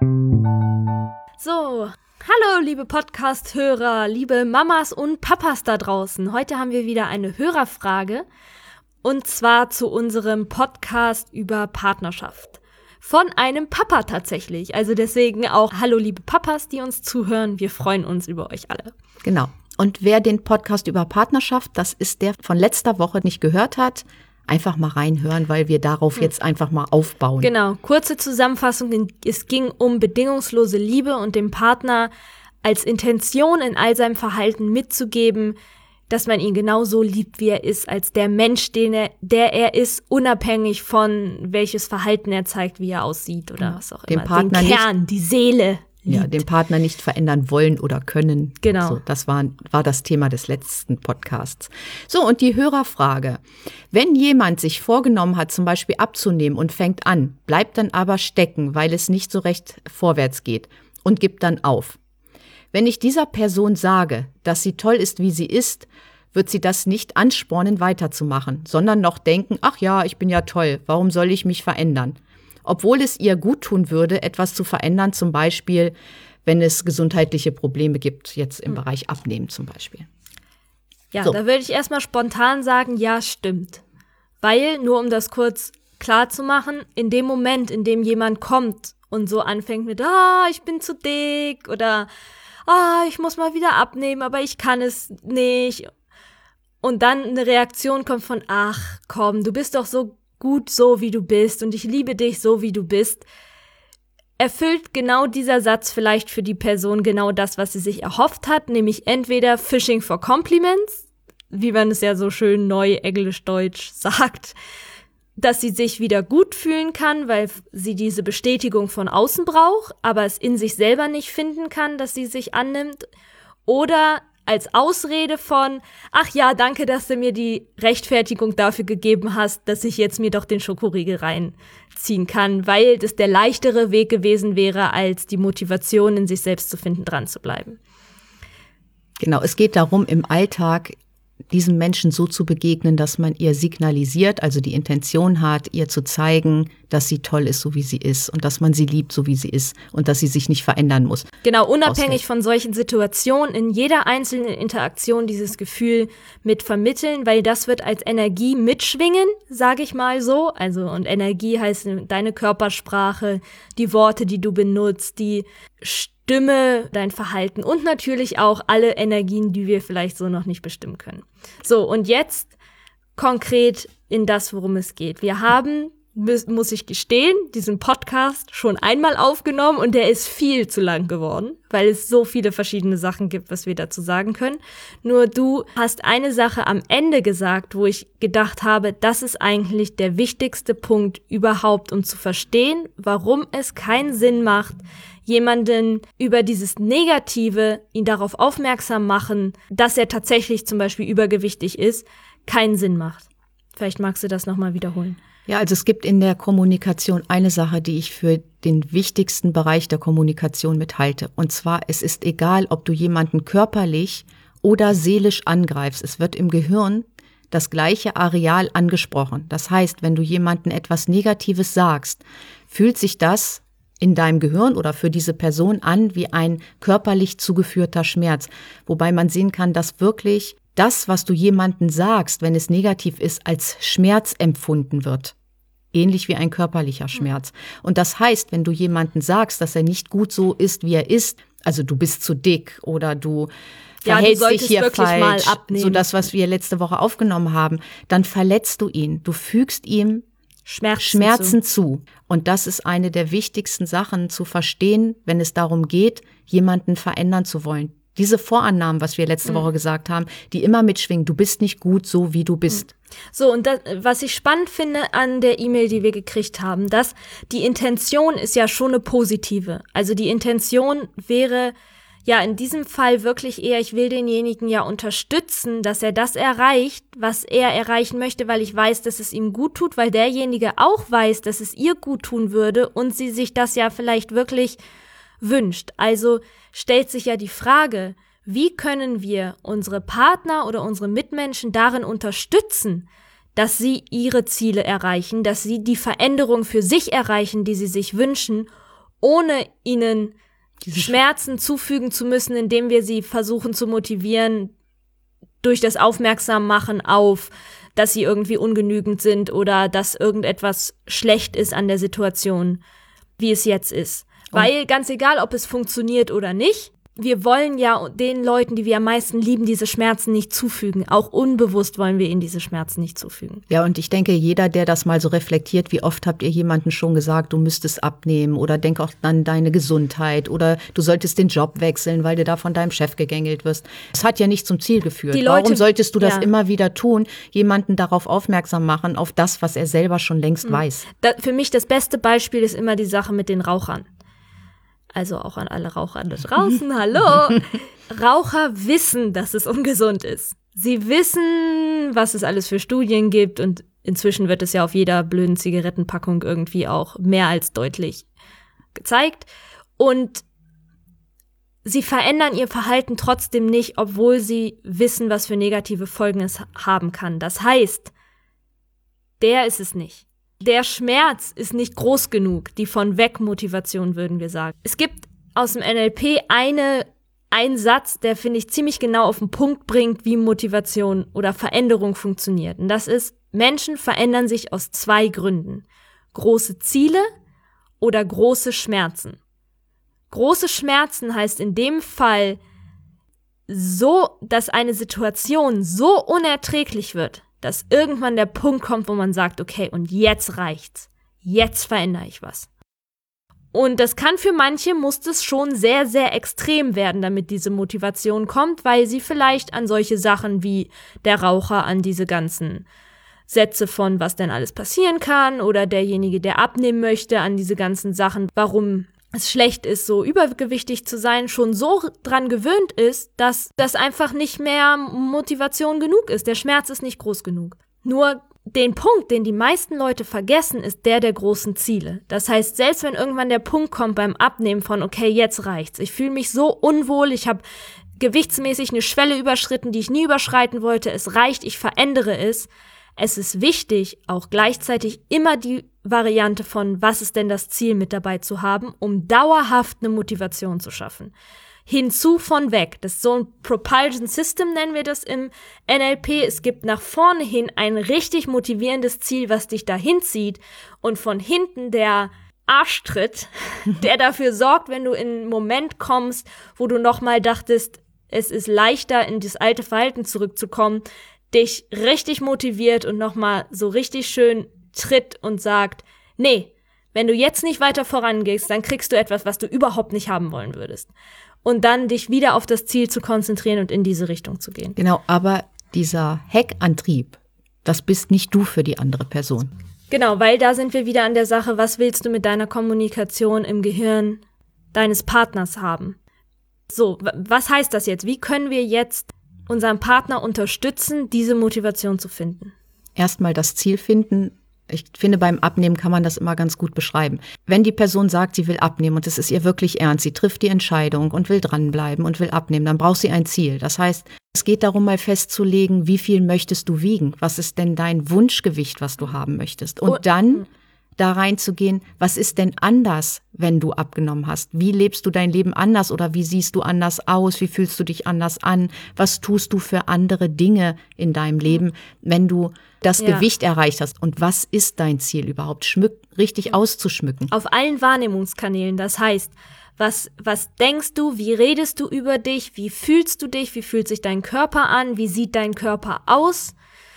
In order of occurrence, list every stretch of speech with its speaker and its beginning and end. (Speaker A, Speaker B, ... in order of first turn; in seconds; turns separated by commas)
Speaker A: 1.4-8.2, Speaker A: 9.0-18.9, Speaker B: 19.2-27.5, Speaker A: 27.4-32.1, Speaker A: 32.6-35.6, Speaker A: 36.1-46.4, Speaker B: 43.6-44.9, Speaker B: 46.1-62.0, Speaker A: 48.6-49.0, Speaker B: 62.7-75.9, Speaker B: 76.4-80.1, Speaker A: 81.1-83.8, Speaker A: 84.4-92.1, Speaker A: 92.7-95.9, Speaker A: 96.8-103.2, Speaker A: 104.4-114.5, Speaker A: 115.4-123.1, Speaker A: 123.7-137.8, Speaker B: 139.2-140.9, Speaker B: 141.5-151.3, Speaker A: 151.4-172.5, Speaker B: 151.8-152.2, Speaker A: 173.2-205.2, Speaker B: 205.5-235.3, Speaker B: 235.9-243.5, Speaker B: 244.0-250.2, Speaker A: 244.0-246.2, Speaker A: 250.7-251.6, Speaker B: 251.0-262.9, Speaker A: 263.3-271.7, Speaker A: 272.2-284.8, Speaker A: 285.4-298.7, Speaker A: 299.2-300.3, Speaker B: 300.8-301.2, Speaker A: 300.9-304.7, Speaker A: 305.6-312.8, Speaker A: 313.4-323.6, Speaker B: 323.7-341.0, Speaker A: 335.3-336.5, Speaker A: 340.6-344.1, Speaker A: 345.1-358.2, Speaker A: 358.9-360.4, Speaker A: 361.8-368.1, Speaker A: 369.4-387.3, Speaker A: 388.0-389.4, Speaker A: 390.3-392.6, Speaker A: 393.7-402.7, Speaker A: 403.7-412.9, Speaker A: 413.5-437.6, Speaker A: 438.2-451.3, Speaker A: 451.9-481.1, Speaker A: 481.6-485.0, Speaker B: 485.0-489.7, Speaker A: 490.1-494.4, Speaker A: 494.9-496.2, Speaker A: 496.9-502.7, Speaker B: 503.1-520.7, Speaker B: 521.2-537.5, Speaker A: 533.2-533.5, Speaker A: 537.5-546.7